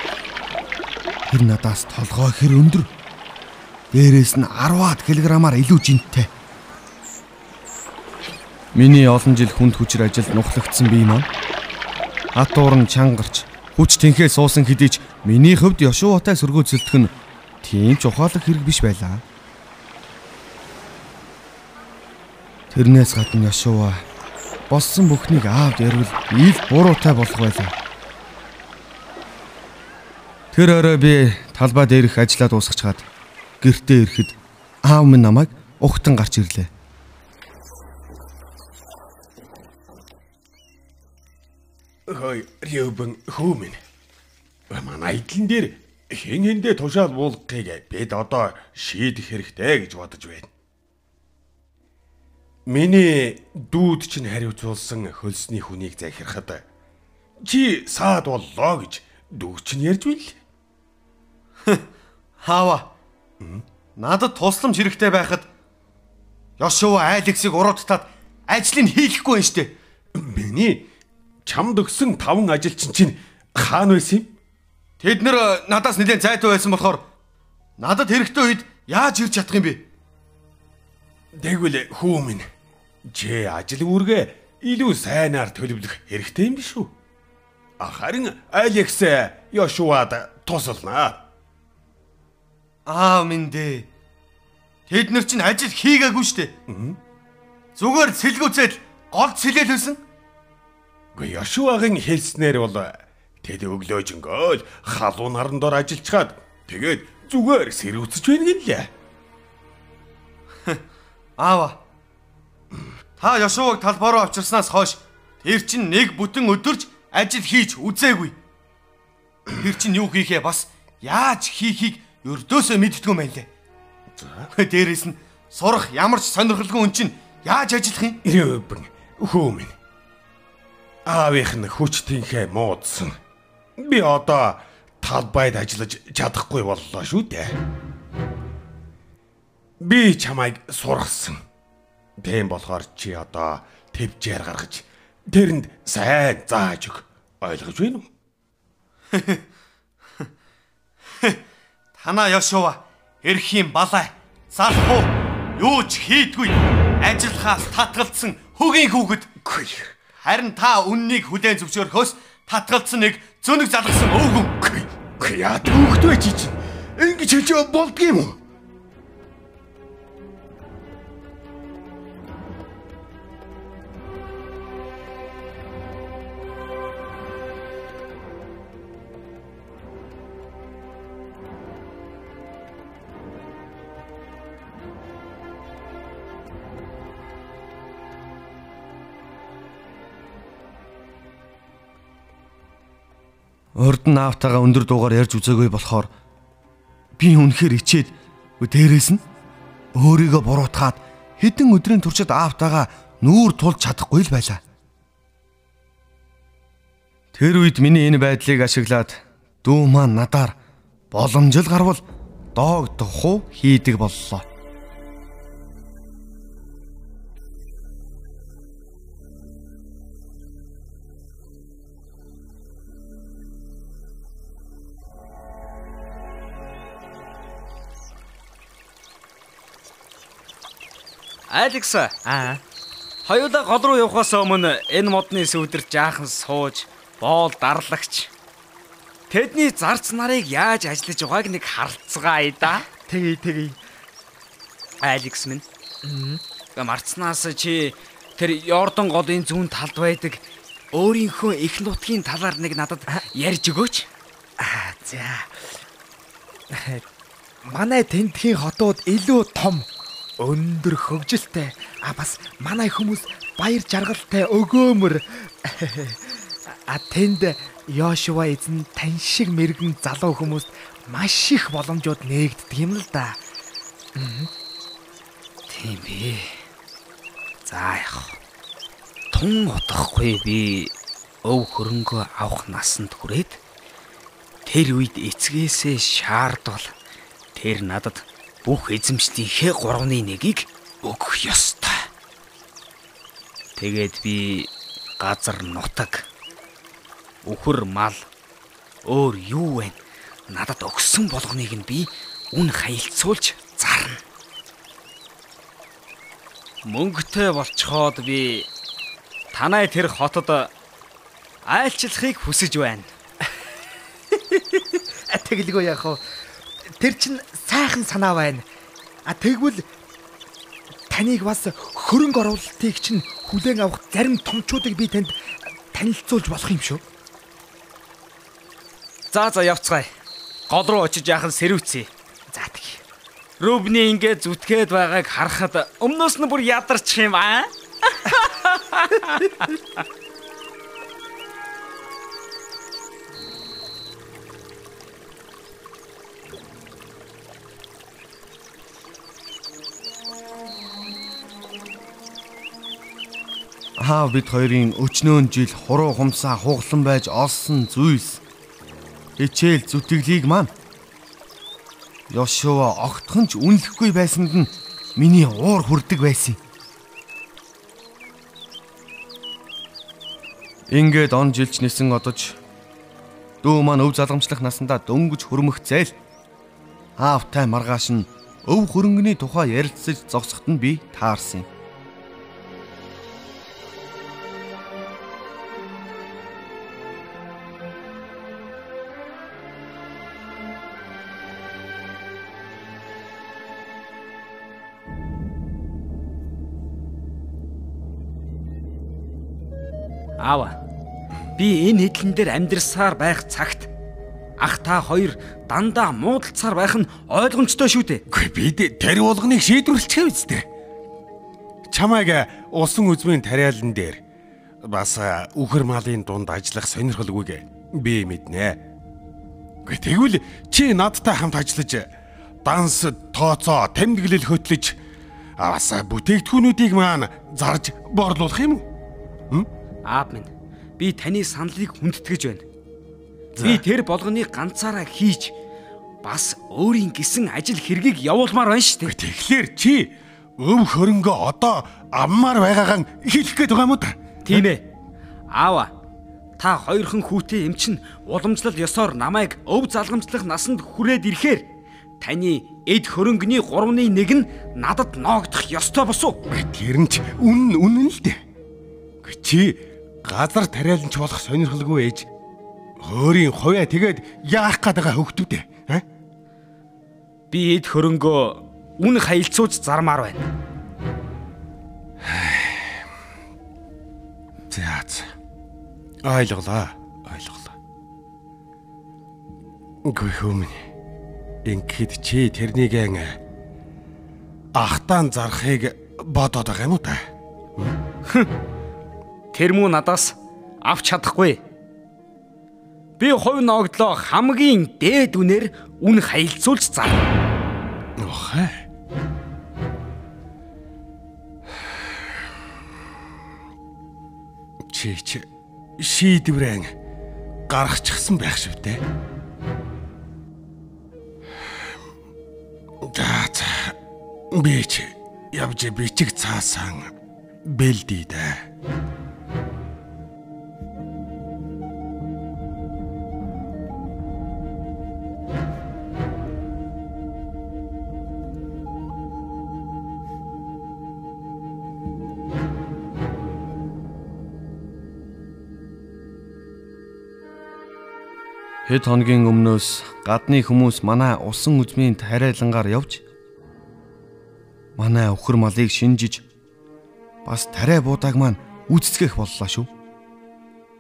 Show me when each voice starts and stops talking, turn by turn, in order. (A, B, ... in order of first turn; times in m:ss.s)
0:01.3-0:02.9 A
0:03.9-0:06.3 A
0:08.7-0:11.3 A
0:12.4-0:19.2 A
0:22.7-0:24.0 A
0:24.7-0:27.8 A
0:30.5-0:33.1 A
0:33.6-0:36.7 A
0:42.1-0:43.8 B
0:44.7-0:50.5 B
0:52.7-0:56.6 B
0:57.4-1:00.4 B
1:02.4-1:02.9 A
1:04.0-1:05.5 A
1:06.6-1:09.7 A
1:10.2-1:10.9 B
1:11.4-1:14.3 B
1:15.0-1:17.0 A
1:17.8-1:19.9 A
1:21.4-1:22.5 B
1:23.1-1:26.9 B
1:27.8-1:31.2 B
1:32.9-1:33.9 A
1:34.9-1:36.5 A
1:36.7-1:37.0 B
1:37.8-1:40.0 A
1:41.2-1:48.9 B
1:51.4-1:51.8 A
1:53.2-1:58.4 A
1:59.5-2:03.5 A
2:04.2-2:04.5 B
2:04.5-2:08.2 A
2:08.2-2:09.8 B
2:11.1-2:13.2 B
2:13.8-2:17.6 B
2:19.8-2:21.4 B
2:22.2-2:28.1 B
2:29.1-2:29.4 A
2:32.0-2:39.4 A
2:39.4-2:40.0 B
2:40.2-2:44.8 A
2:45.2-2:48.4 B
3:13.8-3:16.1 A
3:17.2-3:19.2 A
3:20.0-3:24.6 A
3:27.3-3:30.6 A
3:31.1-3:32.0 A
3:32.6-3:34.5 A
3:51.5-3:52.1 C
3:52.3-3:52.6 D
3:53.2-3:58.3 C
3:59.3-4:02.8 C
4:02.8-4:03.8 D
4:05.0-4:05.6 C
4:06.0-4:06.4 D
4:06.8-4:14.1 C
4:14.6-4:15.6 D
4:16.7-4:17.0 D
4:17.7-4:19.9 D
4:20.4-4:33.4 D
4:34.2-4:34.5 D
4:35.7-4:36.6 C
4:37.7-4:38.4 C
4:39.3-4:43.6 C
4:44.7-4:46.9 C
4:47.6-4:52.1 C
4:53.8-4:56.3 C
4:57.4-4:58.3 C
4:59.1-5:04.2 C
5:06.8-5:08.7 C
5:09.5-5:10.7 C
5:11.7-5:13.1 C
5:14.3-5:16.2 D
5:17.0-5:18.6 D
5:19.3-5:19.8 D
5:21.1-5:25.4 D
5:25.9-5:27.0 D
5:29.3-5:30.1 C
5:30.7-5:33.0 C
5:33.6-5:39.7 C
5:54.0-5:58.4 A
5:59.4-6:00.7 A
6:02.3-6:06.6 A
6:10.9-6:12.6 A
6:13.6-6:16.2 A
6:17.2-6:21.7 A
6:40.4-6:40.8 C
6:41.6-6:43.9 C
6:44.6-6:48.2 C
6:48.3-6:50.7 B
6:51.9-6:54.2 B
6:54.8-6:58.8 B
6:59.9-7:02.1 B
7:02.6-7:05.0 B
7:05.6-7:08.9 B
7:10.1-7:12.6 C
7:13.6-7:13.8 B
7:13.6-7:15.5 C
7:16.2-7:19.2 C
7:19.1-7:24.6 B
7:24.4-7:24.8 C
7:25.5-7:25.9 C
7:26.6-7:31.7 C
7:32.2-7:36.4 C
7:36.5-7:38.4 B
7:39.2-7:42.3 B
7:43.0-7:46.0 B
7:47.5-7:50.4 C
7:52.2-7:53.0 B
7:54.7-7:55.3 B
7:56.2-7:57.8 B
8:00.0-8:00.9 B
8:01.7-8:03.4 B
8:04.8-8:07.2 B
8:09.5-8:11.6 C
8:13.2-8:17.3 C
8:18.2-8:18.8 B
8:24.9-8:25.5 B
8:26.0-8:26.9 B
8:27.7-8:29.0 B
8:33.0-8:34.0 B
8:34.5-8:37.1 B
8:37.7-8:38.6 B
8:58.9-9:03.2 A
9:05.0-9:06.4 A
9:07.4-9:09.9 A